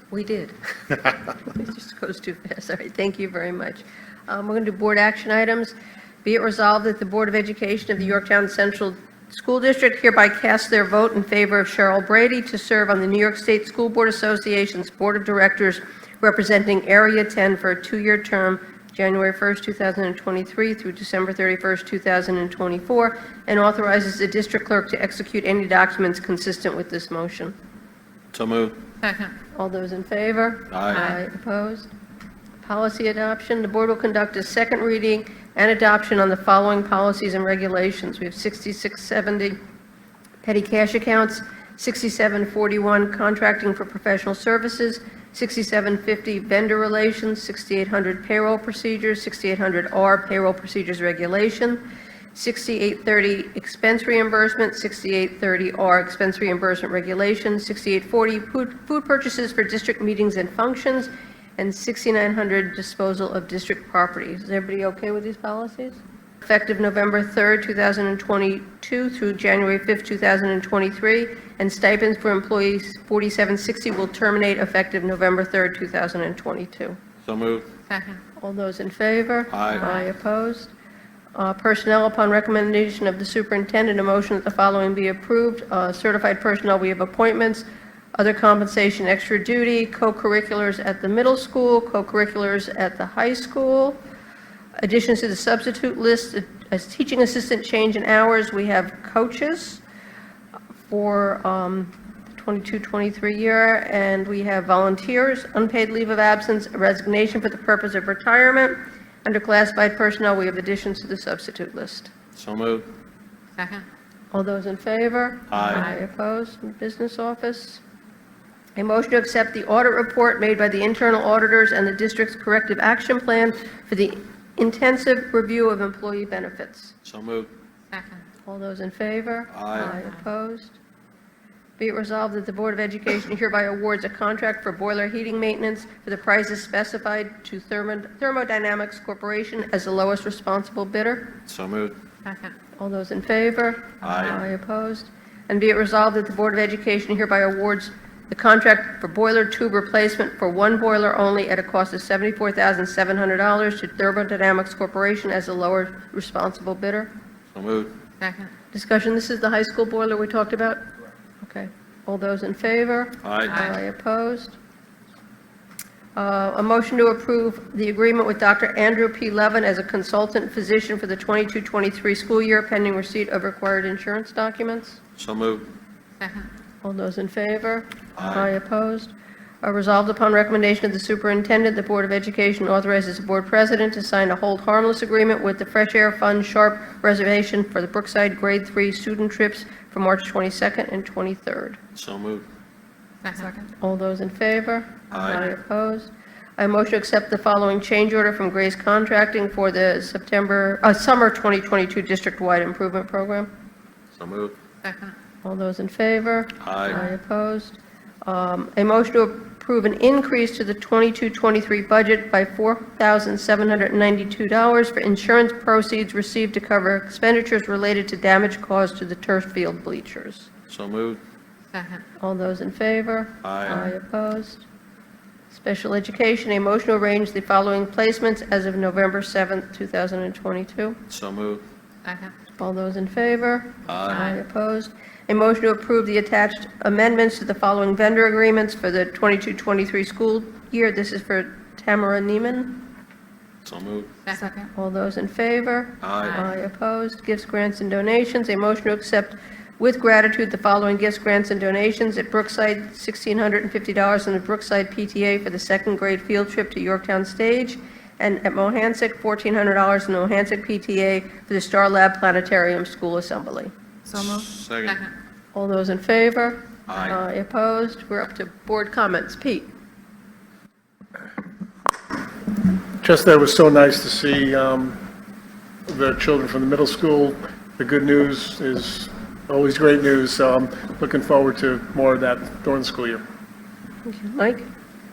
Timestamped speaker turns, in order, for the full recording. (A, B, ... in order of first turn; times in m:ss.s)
0:00.1-0:00.6 A
0:01.4-0:27.5 A
0:28.3-0:28.8 B
0:29.0-0:29.3 C
0:29.5-0:31.9 A
0:30.7-0:31.1 B
0:32.6-0:39.6 A
0:40.4-1:17.0 A
1:17.2-1:17.7 B
1:17.9-1:18.2 C
1:18.4-1:20.7 A
1:19.5-1:19.9 B
1:21.4-1:34.0 A
1:34.8-1:39.8 A
1:40.9-1:52.1 A
1:52.4-1:52.9 B
1:53.6-1:53.8 C
1:54.3-1:57.8 A
1:55.5-1:55.9 B
1:58.8-2:06.9 A
2:07.0-2:07.5 B
2:07.9-2:08.2 C
2:08.5-2:10.8 A
2:09.5-2:10.0 B
2:11.8-2:21.4 A
2:21.5-2:22.0 B
2:22.3-2:22.5 C
2:22.8-2:37.1 A
2:24.0-2:24.4 B
2:37.5-2:37.9 B
2:38.2-2:38.5 C
2:38.7-2:40.8 A
2:41.4-2:44.6 A
2:43.2-2:43.6 B
2:46.2-2:55.0 A
2:55.2-2:55.7 B
2:56.8-3:11.8 A
2:58.2-2:58.5 B
3:12.0-3:12.5 B
3:13.2-3:13.5 C
3:13.8-3:23.5 A
3:15.1-3:15.5 B
3:24.1-3:24.6 B
3:24.8-3:25.1 C
3:25.4-3:40.5 A
3:26.6-3:27.0 B
3:40.7-3:41.2 B
3:41.7-3:42.0 C
3:42.2-3:44.6 A
3:43.4-3:43.9 B
3:45.5-3:51.0 A
3:51.1-3:51.6 B
3:52.1-3:52.3 C
3:52.6-4:02.9 A
3:53.9-3:54.3 B
4:03.6-4:04.1 B
4:04.3-4:04.5 C
4:04.8-4:23.7 A
4:06.0-4:06.4 B
4:24.2-4:25.1 B
4:25.5-4:29.7 A
4:26.9-4:27.2 B
4:33.0-4:35.0 D
4:35.9-4:43.2 D
4:44.1-4:44.7 A